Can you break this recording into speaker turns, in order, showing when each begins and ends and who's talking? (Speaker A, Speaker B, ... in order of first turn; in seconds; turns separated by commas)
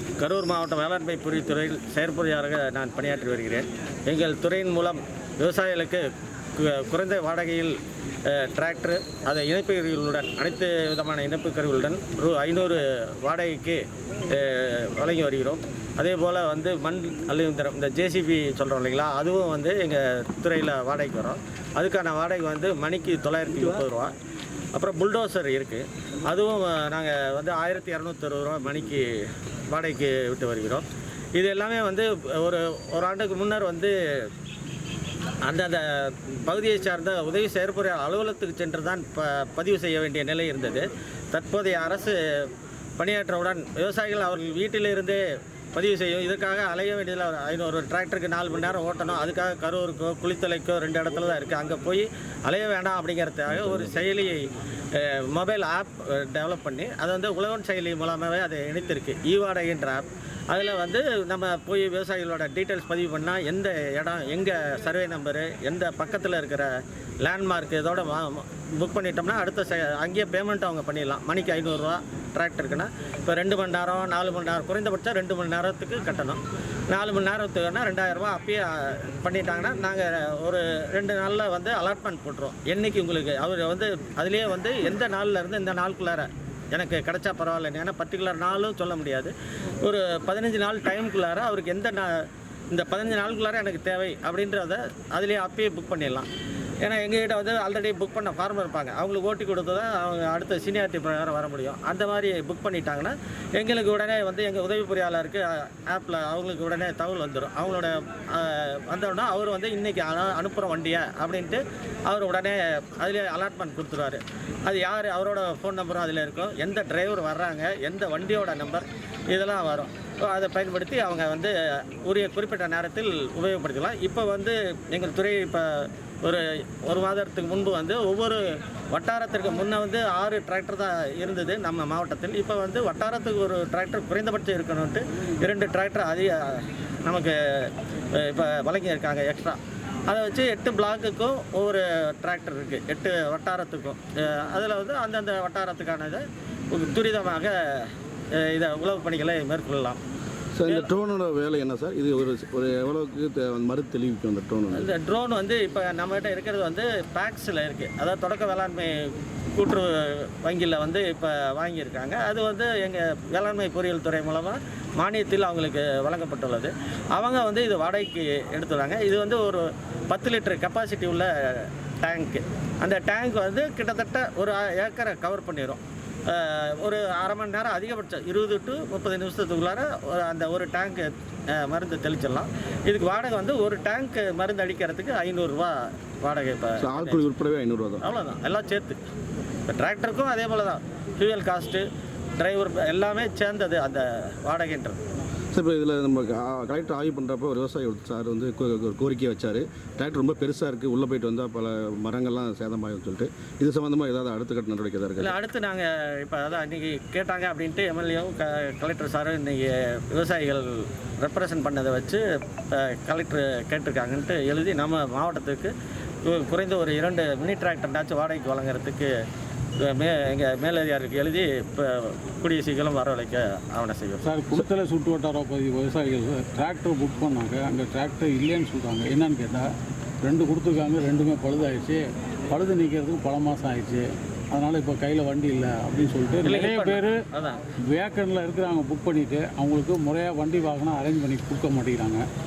Speaker A: 0.2-7.8, Speaker A: 8.3-24.1, Speaker A: 24.8-29.2, Speaker A: 29.7-33.9, Speaker A: 35.4-45.2, Speaker A: 45.7-89.3, Speaker B: 53.5-53.9, Speaker A: 89.8-96.3, Speaker A: 96.8-150.0, Speaker B: 150.6-154.9, Speaker A: 154.7-187.2, Speaker B: 186.8-188.0, Speaker A: 188.0-189.0, Speaker A: 189.7-191.8, Speaker A: 192.4-195.0, Speaker B: 195.5-205.3, Speaker A: 205.2-215.7, Speaker A: 216.2-219.1, Speaker A: 219.8-224.2, Speaker C: 224.2-229.7, Speaker C: 230.2-237.2, Speaker A: 236.4-237.6, Speaker C: 237.9-242.2